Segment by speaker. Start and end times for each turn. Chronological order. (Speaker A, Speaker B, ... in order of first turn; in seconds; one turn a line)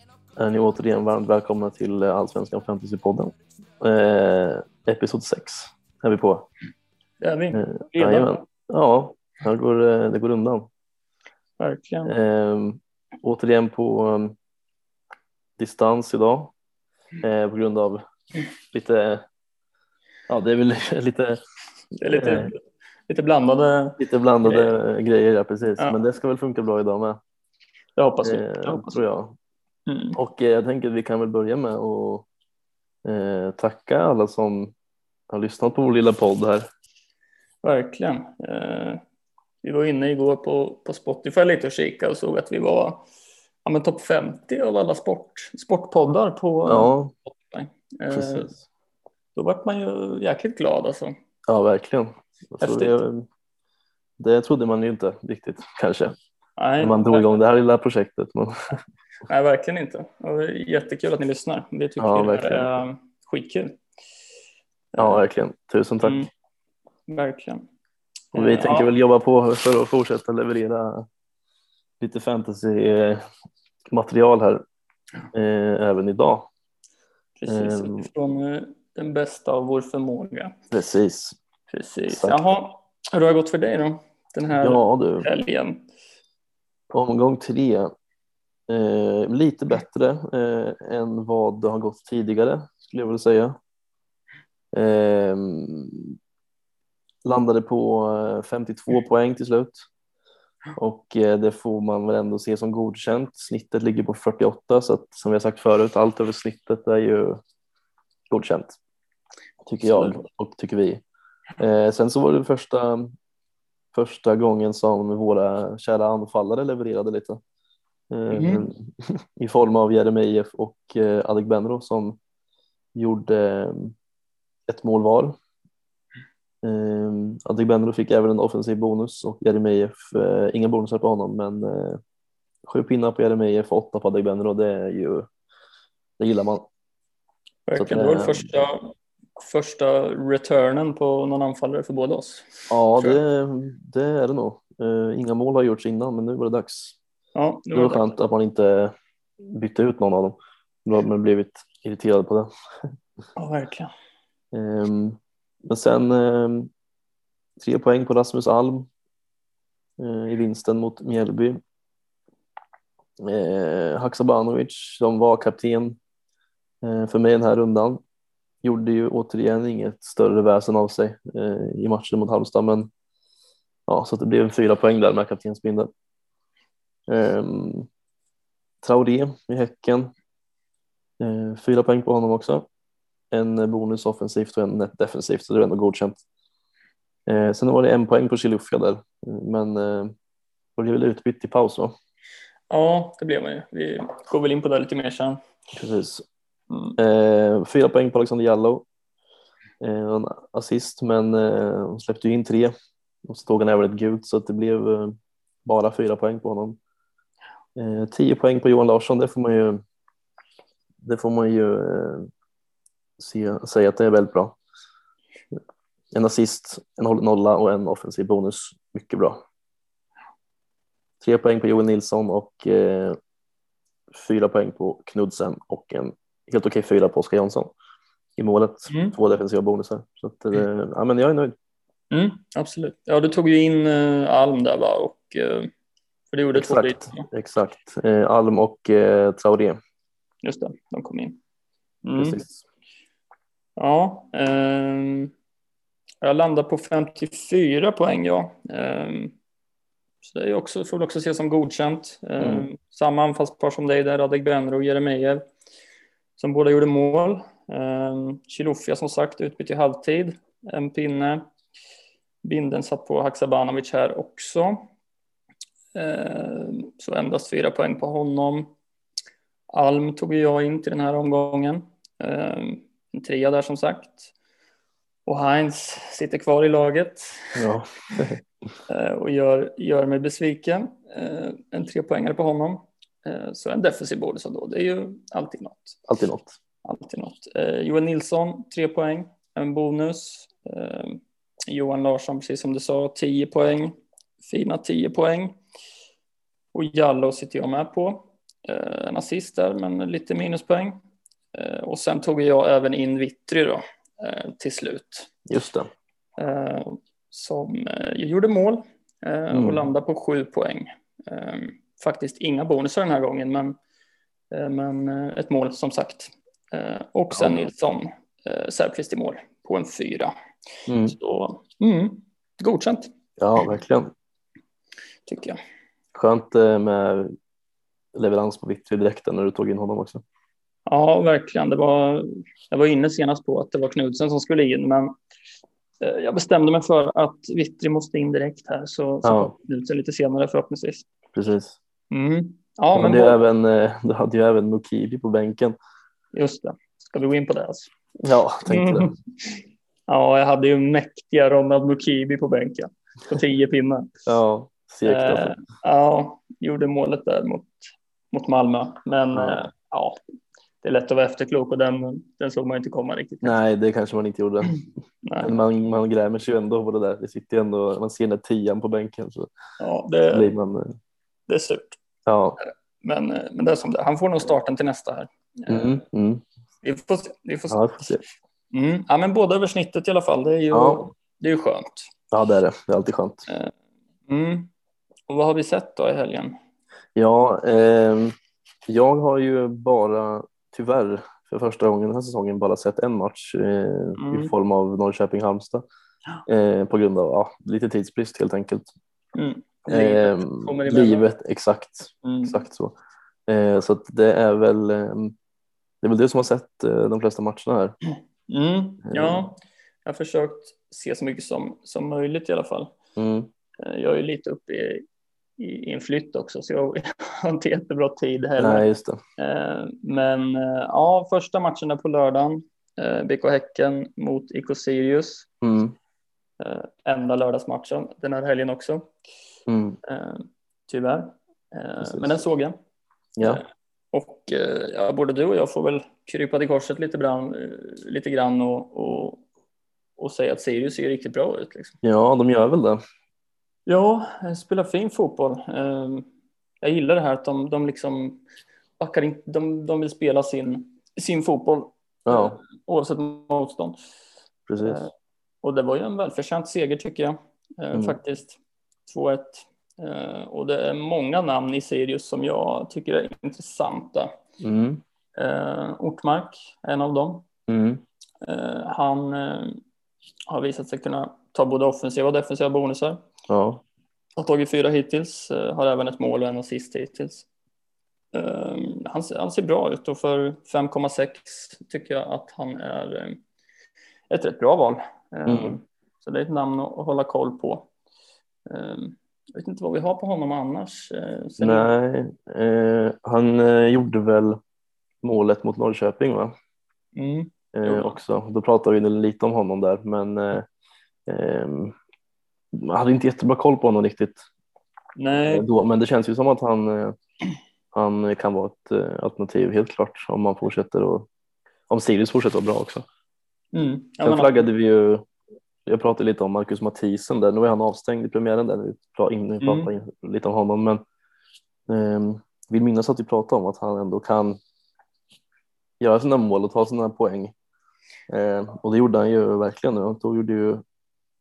Speaker A: 0.4-6.5
Speaker B: 7.2-8.3
Speaker A: 7.5-10.7
Speaker B: 11.6-12.1
Speaker A: 12.1-14.3
Speaker A: 15.6-16.5
Speaker A: 17.2-18.0
Speaker A: 18.7-19.2
Speaker A: 20.3-21.4
Speaker B: 22.0-24.7
Speaker A: 22.1-22.5
Speaker A: 24.0-27.2
Speaker B: 28.0-29.0
Speaker A: 28.2-29.4
Speaker B: 29.9-30.2
Speaker A: 30.2-32.2
Speaker A: 33.0-34.7
Speaker A: 35.3-36.7
Speaker B: 37.6-39.0
Speaker B: 39.6-43.0
Speaker B: 43.6-48.5
Speaker A: 46.7-47.1
Speaker A: 48.1-48.6
Speaker B: 49.3-51.1
Speaker A: 51.5-53.3
Speaker B: 52.6-53.0
Speaker A: 54.2-56.1
Speaker B: 56.6-57.3
Speaker A: 56.8-58.8
Speaker B: 59.3-63.8
Speaker A: 62.0-62.7
Speaker B: 64.9-65.2
Speaker A: 65.0-66.2
Speaker B: 66.0-66.3
Speaker B: 67.1-67.7
Speaker B: 68.3-68.9
Speaker A: 68.3-71.1
Speaker A: 72.0-73.2
Speaker A: 73.9-74.6
Speaker A: 75.3-76.5
Speaker B: 77.4-80.6
Speaker A: 77.5-78.1
Speaker A: 80.7-81.4
Speaker B: 81.7-85.8
Speaker A: 82.1-82.4
Speaker A: 84.6-85.3
Speaker A: 86.9-87.9
Speaker A: 88.7-93.6
Speaker A: 94.7-96.2
Speaker A: 97.2-99.9
Speaker A: 100.8-107.4
Speaker A: 108.3-108.8
Speaker A: 109.7-111.0
Speaker B: 109.9-110.2
Speaker A: 111.6-113.1
Speaker A: 113.9-117.4
Speaker A: 118.1-122.2
Speaker B: 118.3-118.7
Speaker A: 122.9-123.9
Speaker A: 124.7-125.4
Speaker A: 126.6-132.0
Speaker A: 132.7-135.3
Speaker A: 136.2-136.7
Speaker B: 137.7-143.2
Speaker A: 137.8-138.5
Speaker A: 142.7-147.0
Speaker B: 147.4-148.1
Speaker A: 147.7-152.5
Speaker B: 153.4-153.9
Speaker A: 154.5-156.7
Speaker A: 157.6-158.9
Speaker A: 160.0-161.6
Speaker A: 163.2-166.0
Speaker A: 166.8-168.0
Speaker A: 168.6-172.9
Speaker A: 173.9-175.9
Speaker A: 177.1-177.9
Speaker A: 178.8-180.1
Speaker A: 181.2-182.7
Speaker A: 183.3-186.2
Speaker A: 187.3-190.1
Speaker A: 190.8-191.9
Speaker B: 192.7-195.4
Speaker A: 195.7-196.2
Speaker B: 196.7-197.0
Speaker A: 197.0-198.8
Speaker A: 199.8-202.7
Speaker A: 203.2-206.8
Speaker A: 207.8-209.8
Speaker A: 211.0-212.3
Speaker A: 213.2-214.6
Speaker A: 216.1-219.4
Speaker A: 221.2-223.2
Speaker A: 224.1-227.7
Speaker A: 228.4-231.6
Speaker B: 228.9-229.2
Speaker B: 232.1-235.7
Speaker B: 236.3-237.3
Speaker A: 236.5-239.8
Speaker B: 240.4-241.4
Speaker B: 242.0-242.4
Speaker A: 242.2-242.6
Speaker B: 243.8-245.3
Speaker B: 246.2-249.3
Speaker B: 250.2-255.4
Speaker A: 252.4-252.7
Speaker B: 256.4-261.4
Speaker B: 262.4-264.9
Speaker B: 265.9-268.7
Speaker B: 269.7-274.3
Speaker B: 275.2-277.6
Speaker A: 277.6-278.4
Speaker B: 278.9-286.0
Speaker A: 286.1-286.5
Speaker B: 286.8-295.6
Speaker B: 296.7-301.0
Speaker B: 301.5-305.3
Speaker A: 305.5-305.9
Speaker B: 306.4-313.8
Speaker A: 309.5-309.8
Speaker B: 314.5-320.3
Speaker A: 317.3-317.6
Speaker A: 320.9-321.1
Speaker B: 321.0-323.1
Speaker A: 323.4-324.1
Speaker B: 325.3-325.6
Speaker A: 326.1-327.3
Speaker A: 328.1-330.2
Speaker B: 330.9-335.1
Speaker B: 336.0-341.1
Speaker A: 339.2-339.5
Speaker A: 341.3-341.8
Speaker B: 342.1-343.4
Speaker A: 342.9-345.8
Speaker B: 346.3-347.9
Speaker A: 348.2-349.1
Speaker B: 348.6-349.6
Speaker B: 350.1-354.1
Speaker A: 354.2-355.5
Speaker B: 355.0-357.7
Speaker B: 358.3-360.2
Speaker A: 359.3-359.6
Speaker B: 360.8-363.6
Speaker A: 363.4-364.8
Speaker B: 365.2-365.6
Speaker A: 365.4-369.5
Speaker B: 369.8-370.5
Speaker A: 370.3-370.9
Speaker B: 371.5-372.0
Speaker A: 372.2-372.6
Speaker B: 372.6-376.0
Speaker A: 375.7-376.4
Speaker B: 376.8-378.1
Speaker A: 377.7-378.2
Speaker B: 378.7-382.1
Speaker A: 380.7-381.1
Speaker A: 382.3-383.4
Speaker B: 384.3-384.7
Speaker B: 385.3-386.6
Speaker A: 387.1-388.3
Speaker A: 388.9-395.8
Speaker B: 394.2-394.5
Speaker A: 396.5-398.9
Speaker B: 399.3-401.3
Speaker A: 399.9-402.9
Speaker B: 402.2-402.6
Speaker A: 403.5-405.3
Speaker A: 406.0-407.9
Speaker B: 408.5-412.9
Speaker A: 409.0-409.4
Speaker A: 413.1-413.5
Speaker B: 413.8-415.0
Speaker B: 415.6-418.9
Speaker A: 418.6-419.2
Speaker B: 419.4-425.5
Speaker A: 425.6-425.9
Speaker B: 426.6-429.1
Speaker A: 429.7-430.0
Speaker B: 430.0-432.8
Speaker A: 432.0-432.4
Speaker A: 433.4-433.6
Speaker B: 433.4-439.4
Speaker B: 440.2-442.0
Speaker A: 442.0-443.0
Speaker B: 443.9-446.3
Speaker B: 446.8-448.4
Speaker B: 449.0-453.9
Speaker A: 452.2-452.6
Speaker A: 454.7-455.0
Speaker B: 454.8-455.1
Speaker B: 455.6-464.3
Speaker A: 464.6-465.0
Speaker B: 465.4-467.4
Speaker A: 467.7-468.0
Speaker B: 468.4-469.8
Speaker B: 470.5-473.2
Speaker A: 473.5-473.8
Speaker B: 474.4-477.4
Speaker B: 478.3-483.4
Speaker B: 484.3-487.9
Speaker A: 485.5-485.8
Speaker B: 488.7-491.9
Speaker A: 491.6-494.6
Speaker A: 495.2-496.5
Speaker B: 497.1-498.2
Speaker A: 497.7-500.7
Speaker A: 501.3-501.9
Speaker A: 502.7-504.4
Speaker B: 505.2-505.6
Speaker A: 505.5-507.1
Speaker A: 507.9-511.3
Speaker A: 511.9-513.0
Speaker B: 513.7-514.6
Speaker A: 514.2-515.2
Speaker A: 515.9-521.0
Speaker B: 519.6-519.9
Speaker A: 521.9-524.6
Speaker A: 526.0-527.5
Speaker A: 528.3-530.8